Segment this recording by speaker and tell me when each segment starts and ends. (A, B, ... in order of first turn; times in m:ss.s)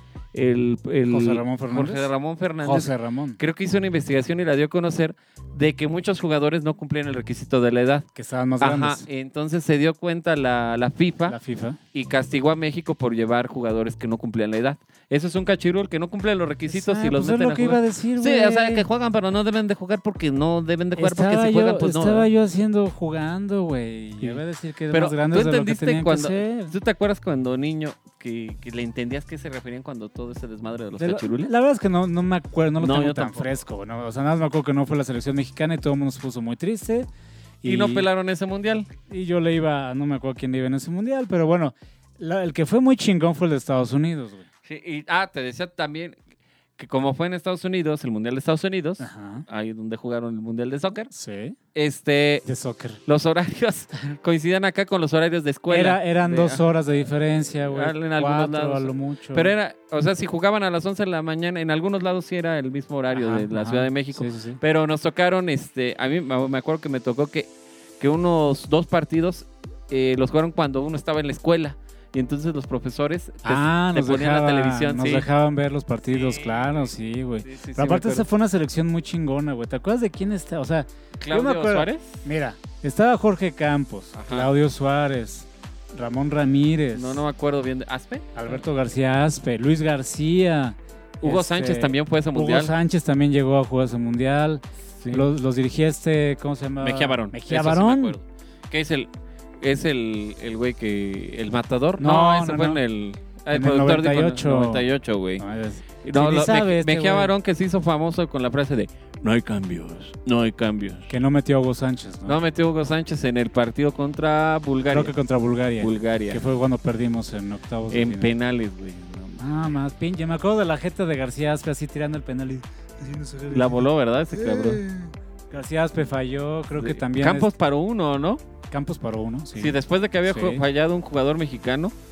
0:00.3-0:08.1 A
0:01.1-0:03.4 B
0:08.2-0:09.0 B
0:08.6-0:11.4 A
0:11.3-0:11.8 B
0:11.9-0:22.3 A
0:16.7-0:18.9 B
0:21.0-0:26.7 B
0:24.2-0:31.5 A
0:31.0-0:37.1 B
0:32.8-0:33.5 A
0:37.6-0:38.1 B
0:37.6-0:38.9 A
0:39.1-0:44.5 B
0:44.6-0:46.2 A
0:46.8-0:51.1 A
0:49.0-0:49.4 B
0:51.1-0:51.6 B
0:51.8-0:52.5 A
0:52.4-0:53.0 B
0:53.1-0:56.6 A
0:55.7-0:59.6 B
0:57.7-1:07.5 A
1:03.1-1:04.6 B
1:08.0-1:15.3 A
1:13.4-1:27.2 B
1:16.1-1:16.9 A
1:17.4-1:18.3 A
1:21.2-1:22.2 A
1:24.1-1:24.5 A
1:26.9-1:28.6 A
1:28.4-1:38.2 B
1:31.2-1:32.7 A
1:35.0-1:35.3 A
1:36.8-1:39.1 A
1:39.6-1:45.4 A
1:42.0-1:42.8 B
1:43.5-1:47.3 B
1:46.0-1:51.1 A
1:51.1-1:52.4 B
1:52.3-1:55.1 A
1:54.9-1:58.3 B
1:55.8-1:56.4 A
1:57.9-1:59.4 A
1:59.4-2:07.5 B
2:03.5-2:04.8 A
2:06.8-2:08.4 A
2:08.7-2:10.6 B
2:09.6-2:11.9 A